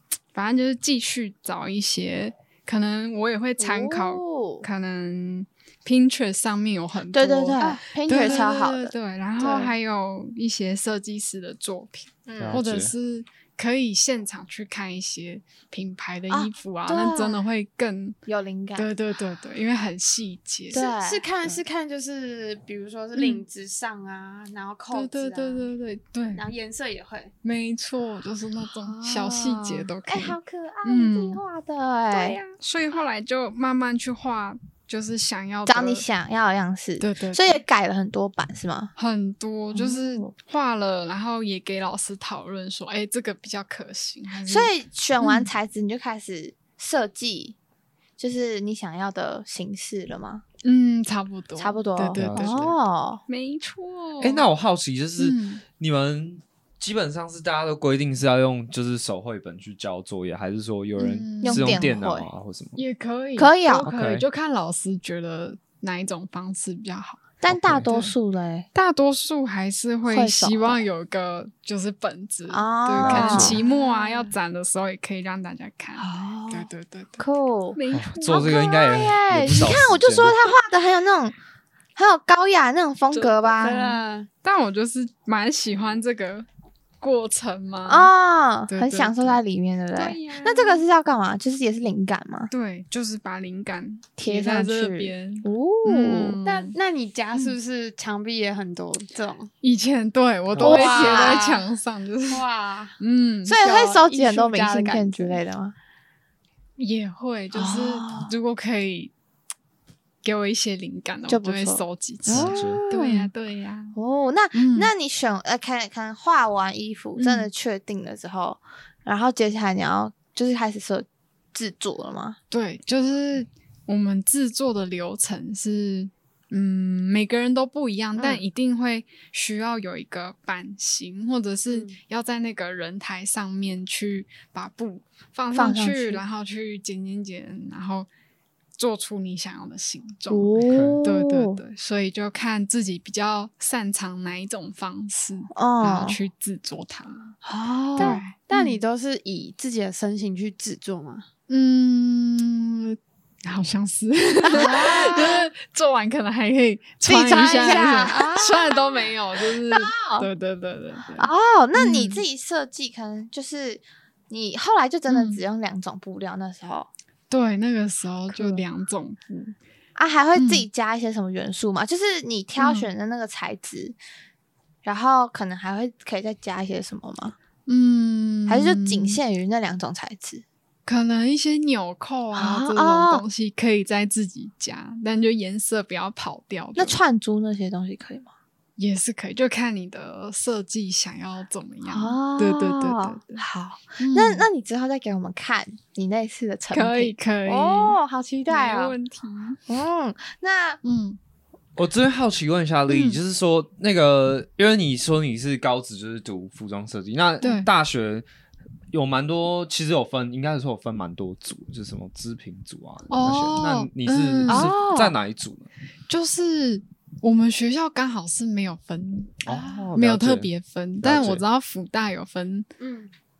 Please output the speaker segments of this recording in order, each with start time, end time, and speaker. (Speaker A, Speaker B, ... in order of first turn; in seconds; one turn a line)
Speaker A: 0.3-18.2
Speaker B: 3.6-4.7
Speaker B: 7.1-9.7
Speaker C: 7.6-7.8
Speaker D: 12.4-12.9
Speaker B: 16.3-17.4
Speaker B: 18.3-18.9
Speaker A: 18.8-20.8
Speaker B: 20.7-21.3
Speaker C: 20.7-25.7
Speaker A: 23.1-23.4
Speaker A: 24.9-26.5
Speaker C: 26.4-27.3
Speaker A: 27.4-31.4
Speaker B: 28.7-32.4
Speaker A: 32.1-36.0
Speaker B: 35.7-38.9
Speaker A: 37.0-37.6
Speaker A: 39.0-45.5
Speaker B: 39.7-40.3
Speaker B: 44.5-47.6
Speaker B: 48.2-50.4
Speaker A: 50.6-52.6
Speaker B: 51.6-53.2
Speaker D: 52.2-52.8
Speaker A: 53.3-54.5
Speaker D: 54.2-62.8
Speaker A: 55.2-55.6
Speaker A: 61.0-61.9
Speaker B: 61.4-62.3
Speaker A: 62.8-67.2
Speaker B: 63.4-63.9
Speaker D: 63.9-64.3
Speaker B: 67.4-68.7
Speaker D: 67.5-67.9
Speaker A: 67.8-68.1
Speaker A: 68.7-78.6
Speaker B: 70.1-70.8
Speaker B: 72.5-73.6
Speaker D: 73.0-73.6
Speaker C: 73.2-74.3
Speaker B: 76.0-76.7
Speaker B: 77.2-81.4
Speaker D: 77.9-80.4
Speaker B: 82.0-84.0
Speaker A: 83.1-86.5
Speaker C: 83.6-84.3
Speaker A: 87.0-88.1
Speaker B: 87.9-92.5
Speaker A: 88.7-89.4
Speaker A: 90.0-90.8
Speaker A: 92.5-96.8
Speaker B: 94.2-96.4
Speaker C: 96.4-99.5
Speaker A: 99.6-102.5
Speaker D: 100.5-100.8
Speaker B: 100.6-101.6
Speaker C: 100.6-101.6
Speaker C: 102.3-103.0
Speaker A: 103.0-103.6
Speaker B: 103.5-105.7
Speaker C: 103.6-105.4
Speaker A: 106.8-109.1
Speaker B: 107.5-108.3
Speaker A: 110.2-114.0
Speaker B: 111.3-113.3
Speaker D: 112.3-112.8
Speaker B: 113.9-122.4
Speaker A: 114.5-114.9
Speaker A: 117.2-117.5
Speaker A: 122.5-138.1
Speaker B: 128.2-128.4
Speaker B: 135.5-136.2
Speaker A: 138.8-147.4
Speaker B: 140.3-141.6
Speaker D: 140.6-141.0
Speaker B: 145.5-146.2
Speaker B: 147.4-148.7
Speaker C: 148.0-151.3
Speaker A: 148.0-148.4
Speaker A: 151.5-162.2
Speaker B: 154.5-155.4
Speaker C: 154.5-155.4
Speaker C: 157.1-158.3
Speaker B: 157.1-160.3
Speaker B: 161.2-166.9
Speaker A: 165.1-165.4
Speaker A: 167.3-169.6
Speaker B: 168.3-168.6
Speaker B: 170.0-174.0
Speaker A: 170.4-170.7
Speaker A: 172.6-172.9
Speaker B: 174.8-177.4
Speaker A: 177.7-179.2
Speaker B: 178.5-180.4
Speaker A: 180.9-187.0
Speaker B: 182.3-183.2
Speaker B: 186.8-188.3
Speaker A: 188.8-193.4
Speaker B: 191.8-198.9
Speaker A: 194.0-194.5
Speaker A: 196.7-199.6
Speaker B: 199.7-200.8
Speaker A: 200.8-201.2
Speaker D: 201.8-208.3
Speaker A: 202.9-203.2
Speaker A: 207.4-207.7
Speaker D: 208.9-215.7
Speaker A: 213.1-214.7
Speaker B: 214.5-215.1
Speaker A: 216.1-222.7
Speaker D: 219.5-220.5
Speaker D: 221.0-221.4
Speaker C: 222.8-223.1